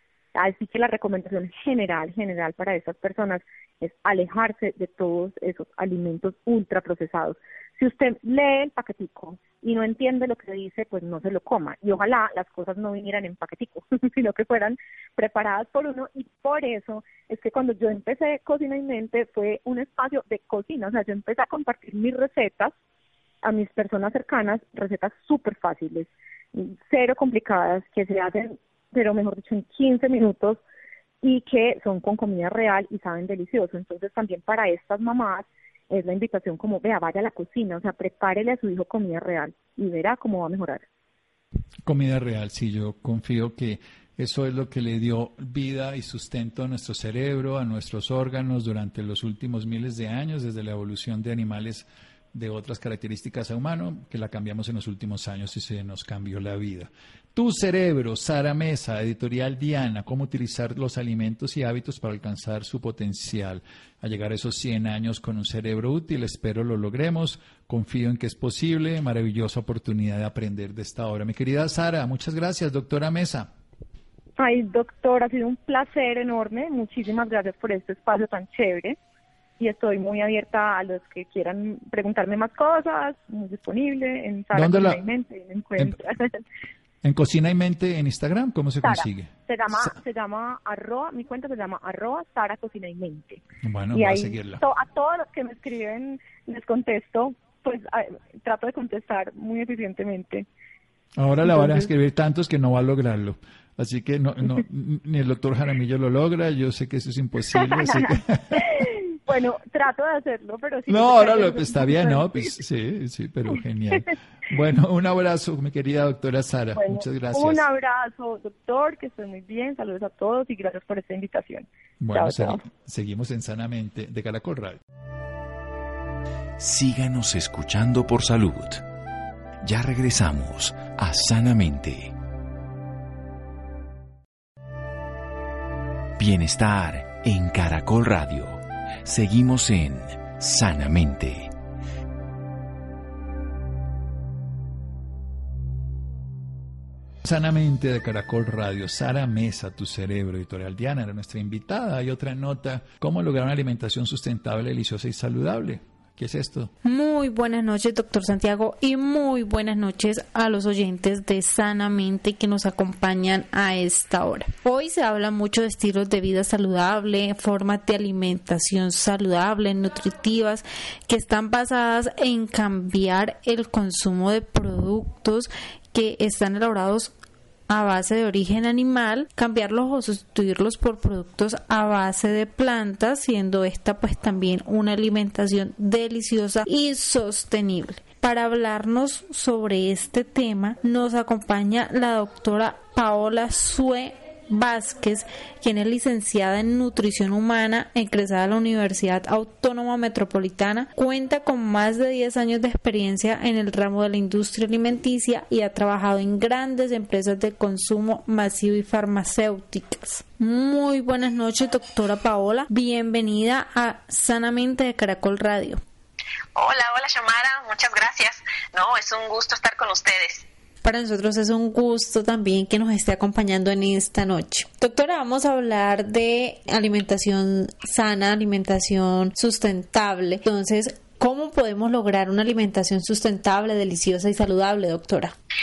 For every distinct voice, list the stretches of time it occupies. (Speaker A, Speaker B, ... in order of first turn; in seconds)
Speaker A: 0.3-22.7, 23.4-30.6, 31.2-40.8, 74.4-79.0, 79.6-86.4, 88.8-100.5, 101.4-101.9, 107.6-112.5, 116.7-122.6
Speaker B: 41.9-73.5, 84.5-85.0, 87.0-89.3, 93.6-94.6, 101.2-108.8, 110.9-117.6, 122.0-124.8, 147.2-156.7
Speaker C: 126.6-128.8, 129.6-132.1, 136.2-141.5
Speaker D: 156.8-177.1, 177.7-215.8, 220.8-235.3
Speaker E: 216.5-220.4